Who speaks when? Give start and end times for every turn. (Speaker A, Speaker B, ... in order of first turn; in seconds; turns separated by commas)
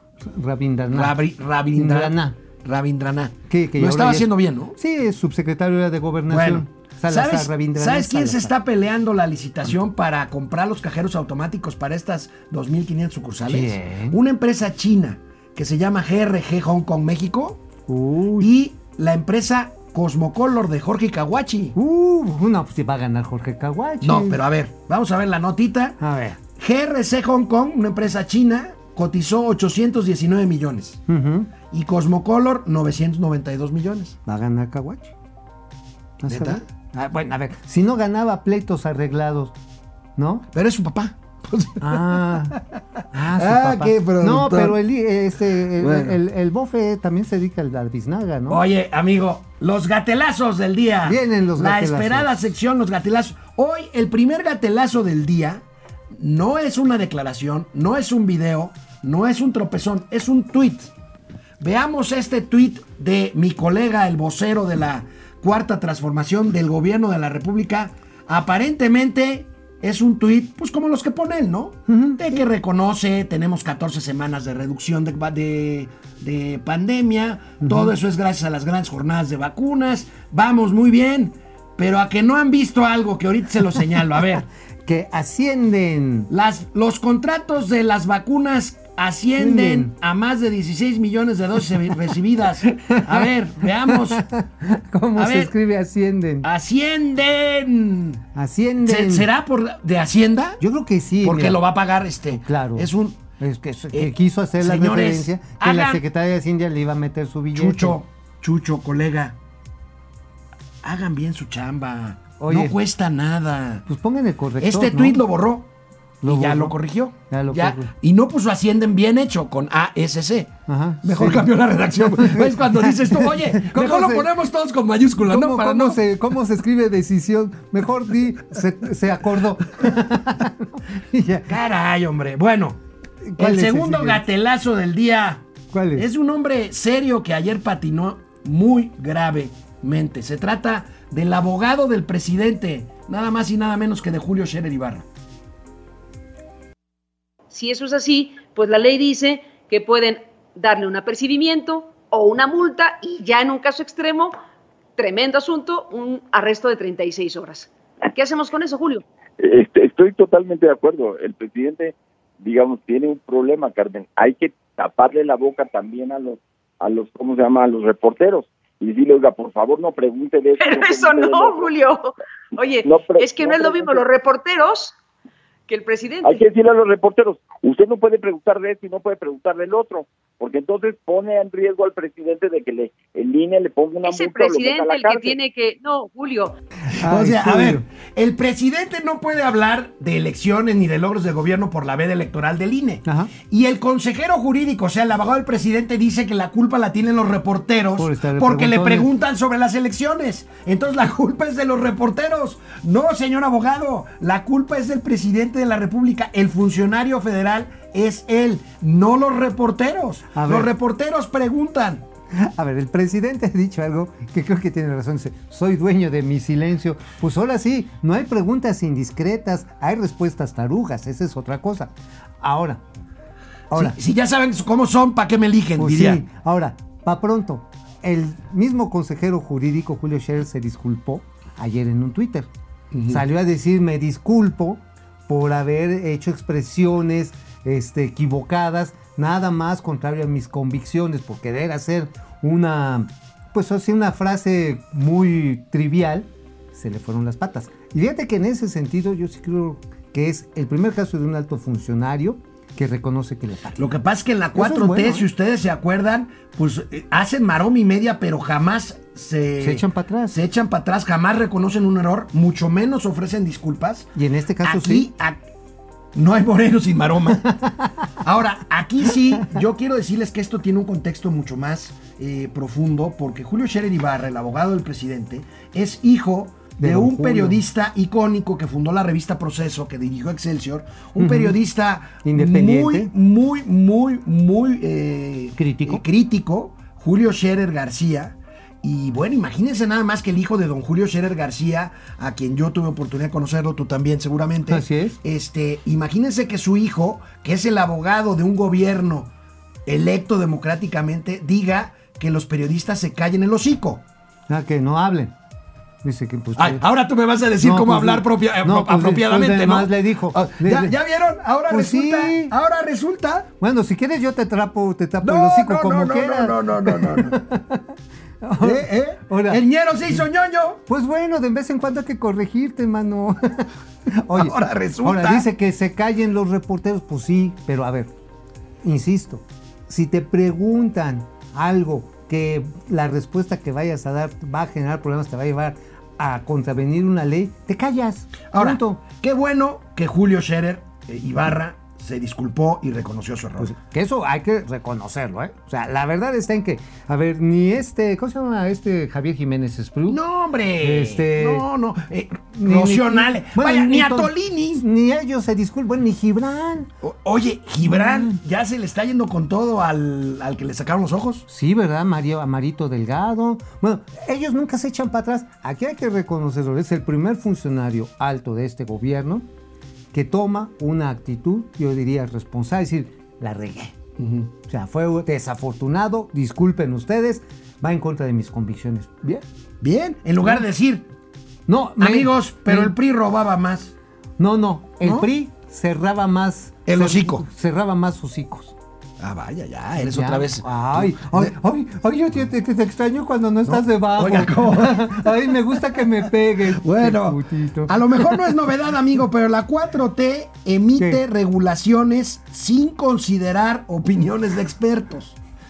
Speaker A: 0.2-1.2, Speaker B: 0.9-4.7, Speaker A: 1.8-2.4, Speaker A: 3.5-8.5, Speaker B: 6.3-17.6, Speaker A: 13.4-14.2, Speaker A: 17.9-18.5, Speaker B: 18.4-21.8, Speaker A: 21.7-24.4, Speaker B: 24.0-26.0, Speaker A: 26.0-26.4, Speaker B: 26.6-31.0, Speaker A: 31.1-31.5, Speaker B: 31.7-34.2, Speaker A: 34.2-35.1, Speaker A: 36.2-39.5, Speaker B: 36.3-36.6, Speaker A: 40.2-40.5, Speaker B: 40.5-44.8, Speaker A: 41.8-42.6, Speaker A: 43.1-48.6, Speaker B: 45.8-46.2, Speaker B: 48.5-60.9, Speaker A: 51.0-52.3, Speaker B: 61.6-84.4, Speaker A: 71.9-72.2, Speaker A: 77.6-77.9, Speaker A: 84.8-86.3, Speaker B: 86.3-94.2, Speaker A: 89.4-89.9, Speaker A: 91.7-96.5, Speaker B: 95.2-95.5, Speaker B: 96.4-98.2, Speaker A: 98.3-99.3, Speaker B: 98.8-100.6, Speaker A: 100.6-101.6, Speaker B: 101.2-103.2, Speaker A: 102.4-108.0, Speaker B: 103.9-106.0, Speaker B: 107.5-109.3, Speaker B: 110.8-113.8, Speaker A: 112.4-112.7, Speaker A: 113.9-115.2, Speaker B: 114.6-115.7, Speaker A: 116.2-116.7, Speaker B: 116.2-126.0, Speaker A: 117.3-117.9, Speaker A: 120.7-124.3, Speaker A: 125.2-131.6, Speaker B: 131.5-132.8, Speaker A: 133.2-134.2, Speaker B: 133.4-145.1, Speaker A: 135.7-136.1, Speaker C: 147.5-154.3, Speaker C: 155.0-159.0, Speaker D: 159.4-171.7, Speaker C: 170.6-174.9, Speaker D: 172.8-174.0, Speaker C: 175.7-176.4, Speaker D: 176.2-185.3, Speaker C: 184.1-186.6, Speaker B: 186.9-212.0, Speaker A: 186.9-187.8, Speaker A: 193.0-193.3, Speaker A: 197.9-199.1, Speaker A: 210.3-210.7, Speaker A: 212.3-222.8, Speaker A: 223.7-224.0, Speaker B: 223.7-226.2, Speaker A: 225.8-232.5, Speaker B: 232.9-233.2, Speaker A: 233.1-253.9, Speaker B: 253.8-264.1, Speaker A: 254.6-255.3, Speaker A: 259.6-260.4, Speaker A: 264.1-265.1, Speaker B: 264.6-265.4, Speaker B: 266.1-267.5, Speaker A: 267.4-268.1, Speaker B: 268.2-299.3, Speaker A: 269.2-269.6, Speaker A: 276.8-277.6, Speaker A: 281.2-281.5, Speaker A: 282.2-283.1, Speaker A: 285.6-286.0, Speaker A: 294.7-295.2, Speaker B: 299.9-304.0, Speaker A: 304.5-305.3, Speaker A: 306.0-306.8, Speaker B: 306.6-313.5, Speaker A: 307.6-311.0, Speaker A: 311.7-312.5, Speaker A: 313.6-320.2, Speaker B: 315.2-317.4, Speaker B: 318.6-320.8, Speaker A: 320.9-328.1, Speaker B: 324.3-325.4, Speaker A: 328.8-339.0, Speaker B: 338.5-343.7, Speaker A: 343.6-350.2, Speaker B: 350.1-354.8, Speaker A: 350.8-351.6, Speaker A: 352.5-356.9, Speaker B: 357.0-361.4, Speaker A: 357.8-358.4, Speaker A: 361.5-369.4, Speaker A: 370.1-373.9, Speaker B: 374.2-374.5, Speaker A: 374.6-379.4, Speaker B: 379.8-381.1, Speaker A: 381.7-382.9, Speaker B: 382.0-383.9, Speaker A: 384.4-388.7, Speaker B: 386.9-387.4, Speaker B: 389.2-391.5, Speaker A: 389.9-398.6, Speaker B: 393.7-395.3, Speaker B: 396.7-405.4